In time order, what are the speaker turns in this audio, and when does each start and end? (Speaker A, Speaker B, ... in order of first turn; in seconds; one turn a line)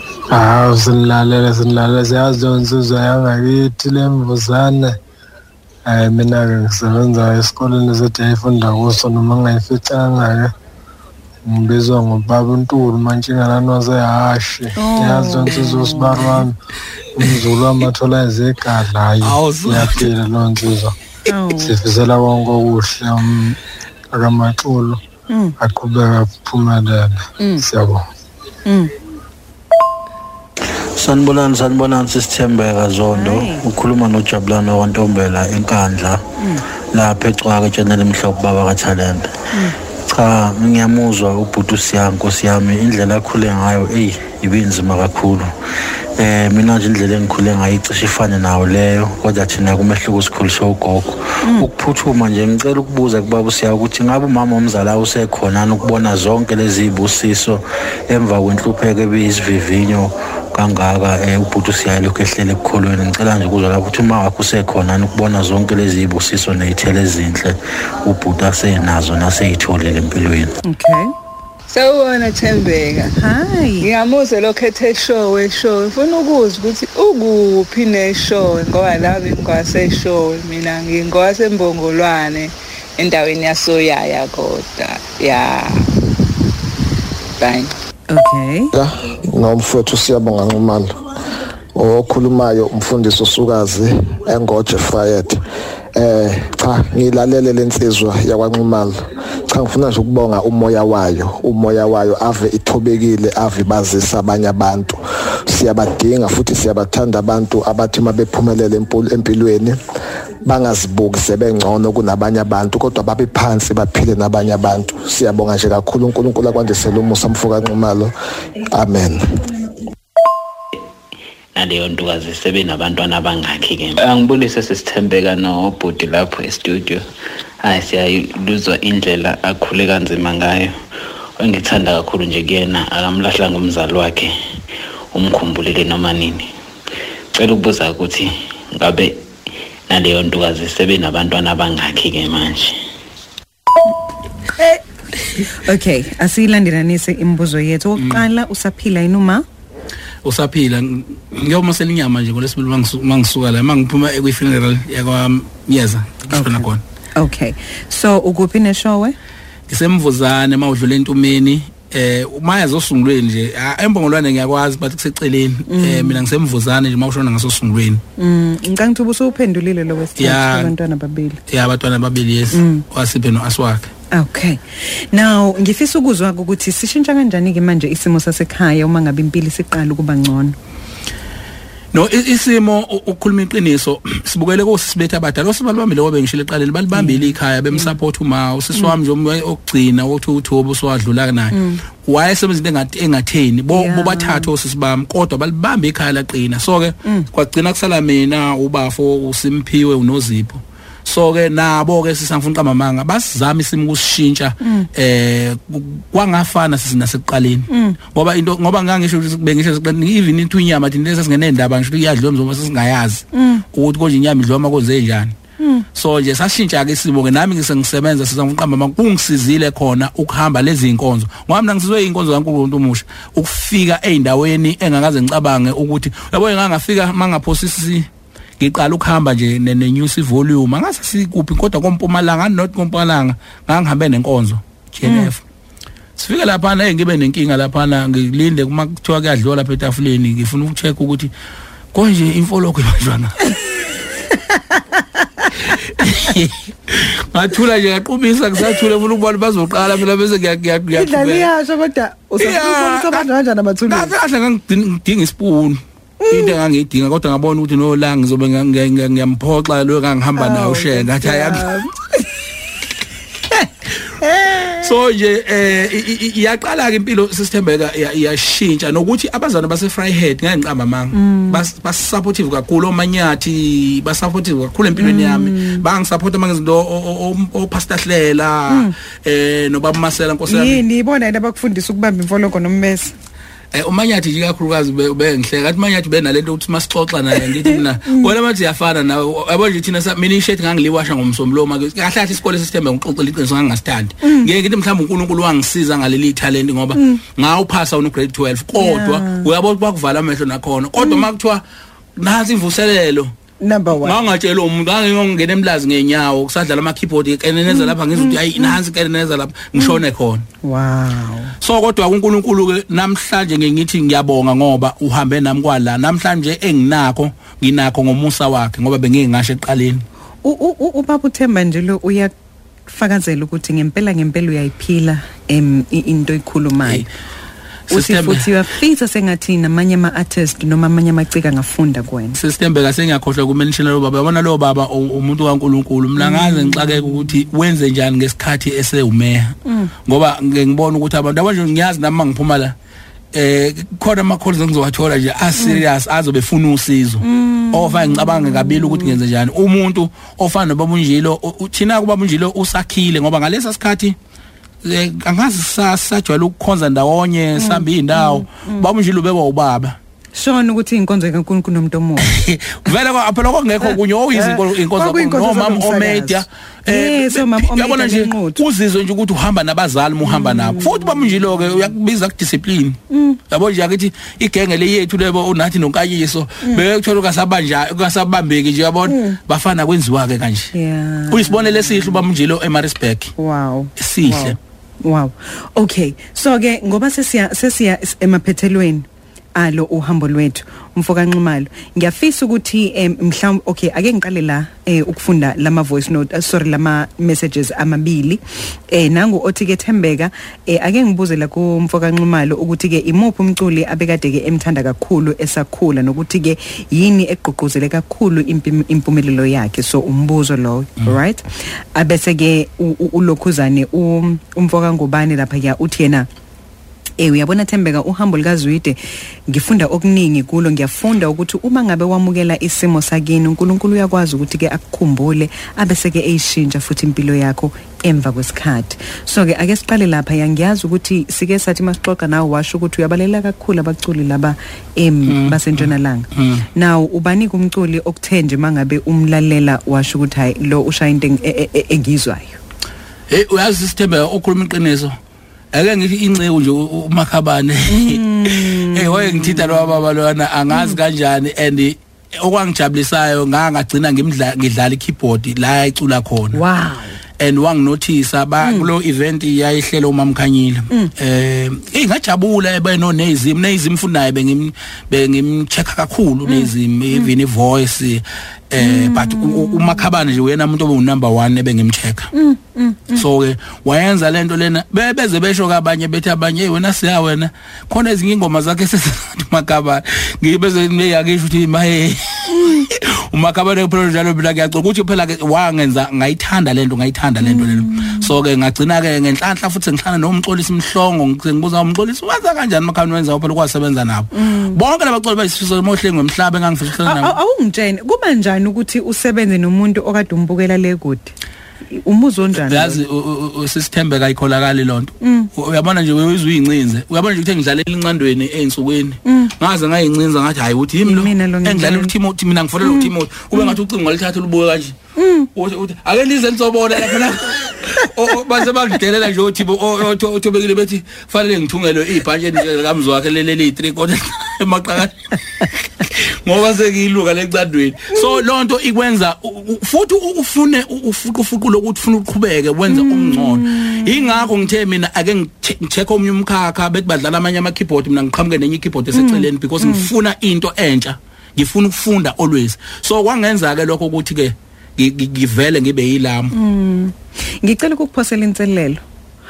Speaker A: 0.3-4.9
Speaker A: 5.9-10.5
Speaker A: 11.4-16.5
Speaker B: 14.8-16.4
Speaker A: 17.2-20.9
Speaker C: 19.2-20.1
Speaker B: 21.3-21.8
Speaker A: 21.6-23.6
Speaker A: 24.1-25.0
Speaker A: 25.6-28.0
Speaker B: 27.4-27.6
Speaker B: 28.6-28.9
Speaker D: 30.9-36.2
Speaker B: 33.1-33.6
Speaker D: 36.9-39.3
Speaker D: 40.1-45.5
Speaker D: 46.1-70.5
Speaker B: 51.4-51.7
Speaker B: 70.6-71.1
Speaker E: 71.7-73.1
Speaker B: 73.2-73.9
Speaker E: 73.8-85.9
Speaker E: 87.4-87.7
Speaker B: 88.1-88.7
Speaker F: 88.7-90.9
Speaker F: 91.7-95.4
Speaker F: 95.9-109.8
Speaker F: 110.4-118.1
Speaker F: 118.7-119.4
Speaker G: 121.5-127.0
Speaker G: 127.6-130.7
Speaker G: 131.4-134.3
Speaker G: 135.1-136.5
Speaker G: 137.3-139.2
Speaker G: 139.9-142.8
Speaker B: 145.5-149.4
Speaker C: 150.2-156.8
Speaker B: 156.3-159.1
Speaker C: 159.7-168.0
Speaker B: 165.7-166.2
Speaker B: 168.2-171.4
Speaker C: 170.2-170.7
Speaker C: 171.5-173.9
Speaker B: 172.5-172.8
Speaker B: 174.1-180.6
Speaker C: 181.9-215.3
Speaker B: 186.9-187.9
Speaker B: 191.5-191.8
Speaker B: 193.7-194.5
Speaker B: 204.6-204.9
Speaker B: 207.7-208.0
Speaker B: 213.3-213.6
Speaker B: 215.6-215.9
Speaker C: 215.9-228.1
Speaker C: 228.6-235.4
Speaker B: 235.0-235.3
Speaker C: 236.2-241.3
Speaker C: 241.9-243.4
Speaker B: 244.3-245.5
Speaker C: 245.7-251.5
Speaker B: 250.9-254.1
Speaker C: 252.4-253.3
Speaker C: 253.9-261.7
Speaker B: 256.2-256.5
Speaker B: 260.4-262.3
Speaker C: 263.9-280.8
Speaker B: 264.2-264.8
Speaker B: 271.1-271.6
Speaker B: 274.9-275.8
Speaker B: 278.7-278.9
Speaker B: 280.5-283.1
Speaker C: 283.7-301.6
Speaker B: 287.7-288.3
Speaker B: 294.2-294.5
Speaker B: 296.9-297.2
Speaker B: 298.8-299.5
Speaker B: 301.0-301.2
Speaker C: 302.1-303.3
Speaker B: 303.6-304.2
Speaker C: 303.9-310.4
Speaker B: 307.7-308.8
Speaker B: 309.8-310.0
Speaker B: 310.6-311.5
Speaker C: 311.6-320.0
Speaker B: 320.4-322.3
Speaker B: 322.9-327.1
Speaker C: 327.9-328.4
Speaker B: 327.9-332.4
Speaker C: 332.3-342.7
Speaker B: 336.2-337.2
Speaker B: 339.6-339.9
Speaker C: 343.3-354.1
Speaker B: 347.2-349.2
Speaker C: 354.8-360.0
Speaker B: 357.6-358.9
Speaker B: 360.3-362.3
Speaker C: 362.2-373.0
Speaker B: 363.8-368.6
Speaker B: 370.2-371.3
Speaker B: 373.1-373.4
Speaker C: 373.5-380.7
Speaker B: 379.1-379.4
Speaker B: 380.7-382.2
Speaker C: 381.3-383.3
Speaker B: 383.4-416.3
Speaker C: 384.0-384.6
Speaker B: 417.2-419.0
Speaker B: 419.5-442.6
Speaker C: 435.2-436.6
Speaker C: 443.3-445.2
Speaker C: 445.7-456.6
Speaker B: 447.9-450.0
Speaker B: 450.7-451.0
Speaker B: 456.5-457.2
Speaker C: 457.4-472.3
Speaker B: 458.6-458.9
Speaker B: 466.4-467.3
Speaker B: 468.8-470.1
Speaker B: 472.3-473.2
Speaker C: 473.1-497.3
Speaker B: 482.5-482.9
Speaker B: 487.4-488.3
Speaker B: 494.3-494.8
Speaker B: 497.0-501.3
Speaker B: 501.9-503.0
Speaker C: 502.5-515.0
Speaker B: 505.2-505.5
Speaker B: 509.2-509.5
Speaker B: 511.0-512.1
Speaker B: 512.8-513.7
Speaker B: 515.1-515.5
Speaker C: 515.5-546.5
Speaker B: 532.9-534.2
Speaker B: 539.1-540.1
Speaker B: 546.5-549.0